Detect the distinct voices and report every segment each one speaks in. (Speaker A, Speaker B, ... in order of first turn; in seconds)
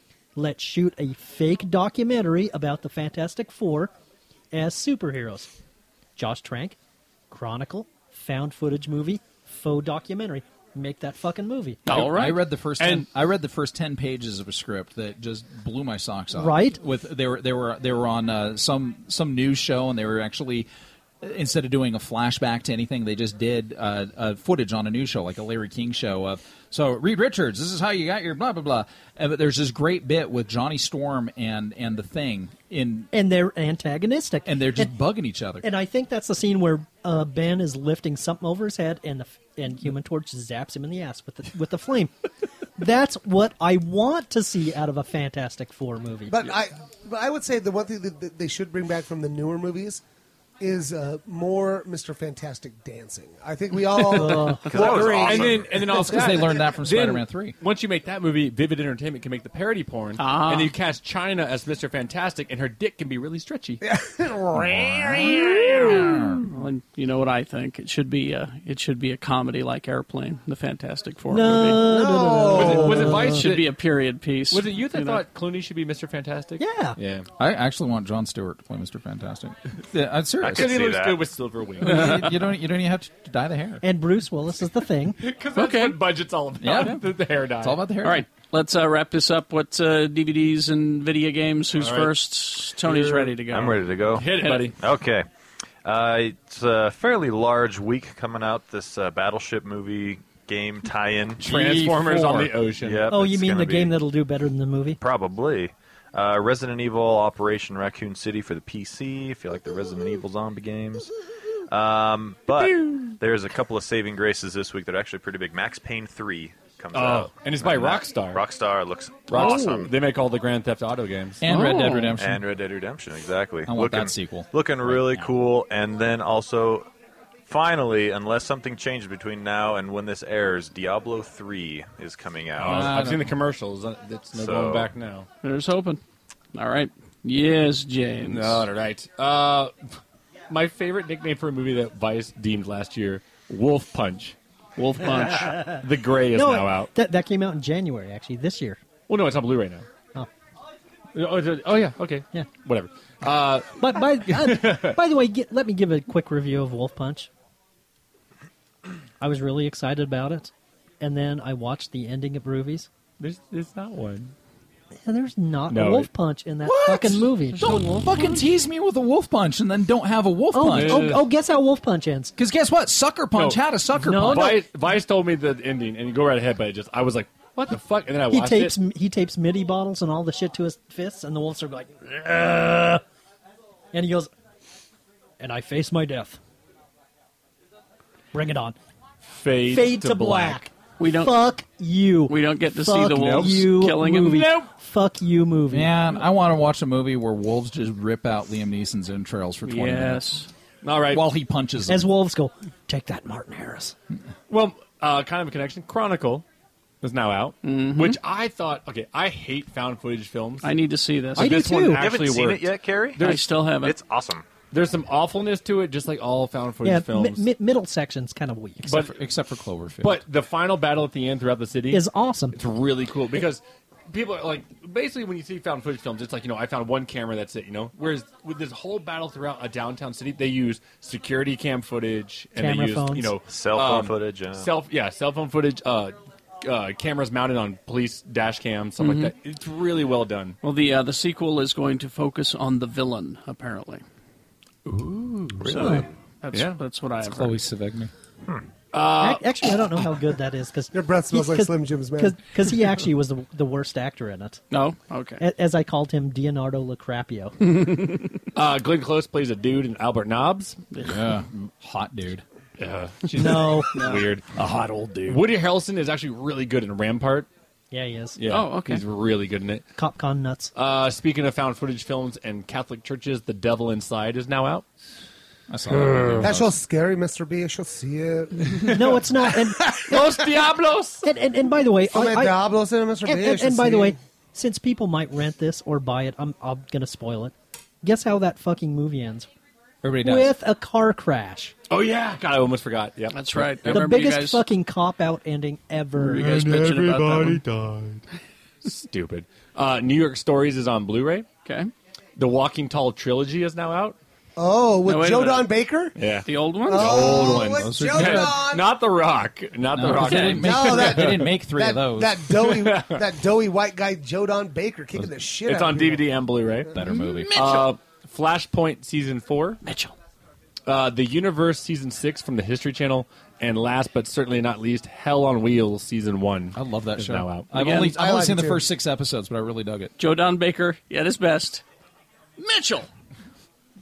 Speaker A: 0.4-3.9, 4.5-5.5, 6.2-6.8, 7.3-11.8, 16.4-16.8, 33.1-34.9, 35.6-42.1, 42.8-46.4, 54.1-54.7, 71.3-73.5, 76.6-77.0, 83.8-85.2, 103.1-105.0, 146.3-148.8, 153.8-157.3, 159.2-162.9, 165.0-168.4, 170.5-172.3, 174.0-174.6, 178.3-183.0, 183.9-184.3, 185.4-186.4, 188.3-188.8, 189.7-196.0, 201.9-203.9, 211.4-212.1, 216.8-218.9, 221.9-222.6, 232.6-233.4, 245.8-246.1, 249.2-254.6, 255.4-257.6, 263.4-263.9, 267.9-268.4, 270.0-270.7, 278.9-280.1, 281.2-282.6, 283.2-289.5, 290.2-291.7, 293.9-296.7
Speaker B: 11.9-12.4, 60.2-60.8, 66.5-71.8, 72.6-75.2, 81.8-82.3, 85.5-86.0, 88.0-94.7, 119.3-119.8, 121.5-122.2, 135.4-136.0, 136.5-138.7, 144.8-145.8, 191.0-191.3, 192.3-194.7, 199.7-200.5, 207.6-208.2, 210.6-211.6, 213.2-213.9, 239.0-239.3, 240.6-244.0, 245.7-247.6, 254.7-255.4, 257.7-258.3, 263.9-264.3, 268.5-269.0, 293.3-294.6, 296.2-297.6, 301.6-301.9, 305.1-305.7, 306.5-307.6, 310.1-310.9, 317.0-317.9, 319.8-320.1, 327.7-328.1, 330.2-331.8, 332.6-333.1
Speaker C: 11.9-13.1, 54.2-63.8, 72.5-73.7, 74.5-77.3, 80.5-82.3, 85.2-87.8, 91.8-92.1, 92.8-93.3, 94.1-94.8, 101.4-103.1, 112.5-113.2, 116.9-118.5, 119.3-121.4, 132.6-135.3, 138.2-139.9, 140.5-144.4, 145.0-146.9, 149.1-149.9, 151.1-155.0, 163.2-164.3, 165.7-166.1, 170.6-171.2, 173.3-178.8, 189.3-190.7, 200.8-201.3, 204.5-206.4, 207.0-210.7, 211.3-213.6, 214.7-217.5, 218.9-219.2, 220.0-222.0, 222.5-240.6, 244.9-246.0, 246.5-246.8, 248.9-249.4, 258.6-260.8, 262.8-264.6, 265.2-267.5, 268.4-269.8, 270.8-274.9, 280.0-281.2, 291.9-294.1, 296.4-298.2, 298.8-301.5, 302.4-304.2, 306.2-311.5, 312.6-313.3, 315.6-317.0, 317.5-319.8, 320.9-327.9
Speaker D: 11.9-20.7, 21.2-33.1, 34.5-35.6, 55.9-57.6, 64.6-66.5, 77.4-80.8, 81.8-83.8, 86.6-87.0, 87.6-88.2, 101.4-102.5, 121.4-122.4, 123.7-125.3, 132.6-133.3, 166.6-171.2, 172.4-174.6, 195.7-200.2, 201.1-202.1, 218.8-220.2, 247.2-248.1, 261.0-262.4, 264.6-265.4, 275.7-276.7, 290.0-290.5, 307.7-308.6, 309.9-312.5, 316.9-317.7, 326.7-330.1
Speaker E: 46.3-50.0, 50.6-56.5, 63.8-66.4, 71.8-73.3, 250.9-252.4, 276.4-279.1, 279.8-280.3, 282.1-284.2, 304.6-306.1, 306.9-308.9, 310.6-316.3, 328.1-328.9
Speaker F: 54.7-55.8, 80.4-81.3, 93.5-95.2, 95.8-101.5, 102.8-104.0, 105.0-111.1, 111.7-120.0, 122.2-126.9, 127.5-132.9, 134.3-134.9, 211.9-213.3, 213.8-214.5, 233.5-234.7